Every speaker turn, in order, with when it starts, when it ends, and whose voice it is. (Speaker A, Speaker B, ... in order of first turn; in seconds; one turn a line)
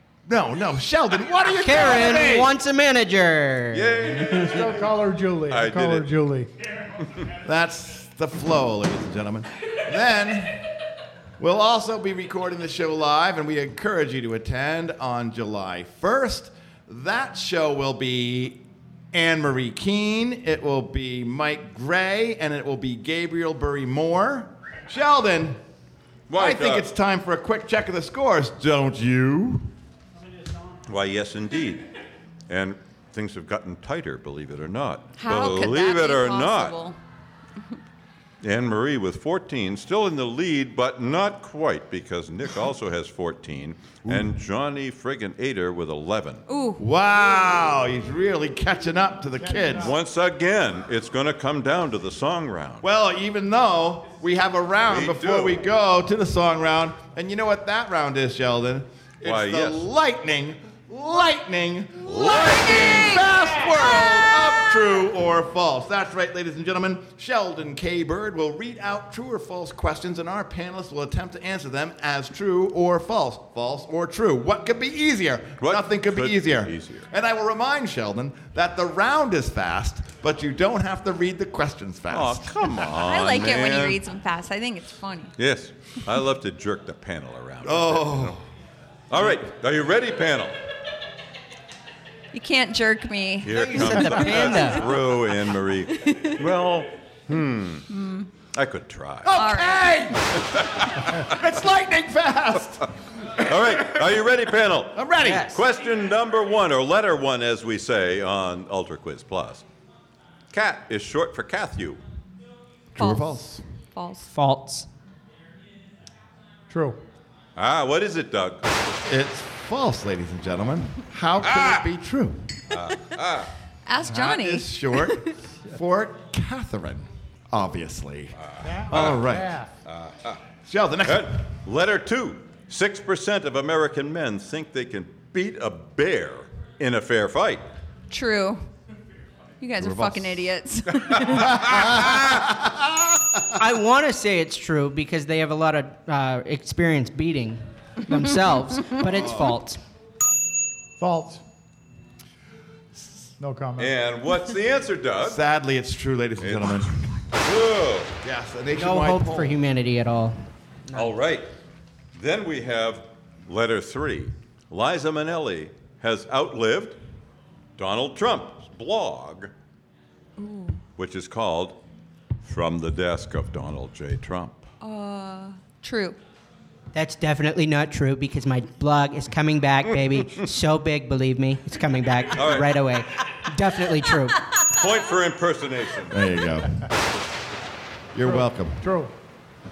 Speaker A: 0.3-2.5
Speaker B: 1.6-4.6
Speaker C: 3.7-4.9
Speaker D: 4.4-6.5
Speaker C: 5.5-6.1
Speaker A: 7.4-10.6
Speaker A: 11.4-18.6
Speaker A: 19.1-25.6
Speaker C: 26.3-26.9
Speaker A: 26.3-29.7
Speaker C: 30.9-31.9
Speaker C: 32.5-36.8
Speaker E: 35.2-37.0
Speaker C: 38.4-46.4
Speaker E: 46.5-46.8
Speaker A: 46.8-50.0
Speaker D: 49.4-49.9
Speaker C: 49.8-52.8
Speaker A: 52.8-82.7
Speaker C: 54.9-55.6
Speaker C: 59.2-59.9
Speaker E: 62.0-64.7
Speaker C: 62.1-62.8
Speaker C: 75.6-77.1
Speaker C: 82.1-84.0
Speaker E: 83.0-85.3
Speaker C: 85.4-88.4
Speaker A: 87.6-88.4
Speaker C: 89.1-90.5
Speaker E: 92.3-94.3
Speaker C: 93.4-97.9
Speaker B: 93.5-94.9
Speaker E: 96.0-96.3
Speaker E: 97.9-98.3
Speaker C: 98.5-99.4
Speaker A: 99.2-100.4
Speaker E: 99.3-100.0
Speaker C: 100.4-101.3
Speaker A: 101.1-102.9
Speaker C: 103.4-109.6
Speaker A: 104.9-105.6
Speaker B: 105.2-105.6
Speaker C: 110.5-112.0
Speaker A: 113.0-113.6
Speaker E: 113.0-113.3
Speaker E: 113.9-114.3
Speaker B: 114.3-114.9
Speaker D: 116.7-117.0
Speaker C: 117.5-118.7
Speaker A: 119.0-122.6
Speaker C: 121.5-121.8
Speaker C: 122.7-123.5
Speaker E: 123.9-125.2
Speaker A: 124.0-128.4
Speaker C: 128.4-129.2
Speaker D: 128.6-129.7
Speaker A: 128.9-129.6
Speaker C: 129.9-130.4
Speaker A: 130.7-131.4
Speaker C: 131.1-137.7
Speaker E: 138.1-138.6
Speaker E: 139.6-141.6
Speaker A: 139.8-140.3
Speaker A: 141.3-143.5
Speaker C: 141.5-142.2
Speaker B: 143.6-149.8
Speaker A: 149.1-149.6
Speaker D: 151.0-151.4
Speaker D: 153.4-153.9
Speaker C: 153.8-155.4
Speaker A: 155.2-157.0
Speaker C: 156.4-158.1
Speaker A: 158.2-159.6
Speaker B: 158.7-161.1
Speaker C: 160.9-161.5
Speaker C: 162.1-167.0
Speaker C: 167.8-169.5
Speaker E: 170.4-170.8
Speaker C: 171.0-171.8
Speaker C: 172.4-174.7
Speaker E: 174.8-176.2
Speaker B: 176.9-184.4
Speaker C: 182.3-182.8
Speaker C: 184.6-186.3
Speaker A: 186.1-186.9
Speaker A: 188.1-188.8
Speaker D: 188.2-189.1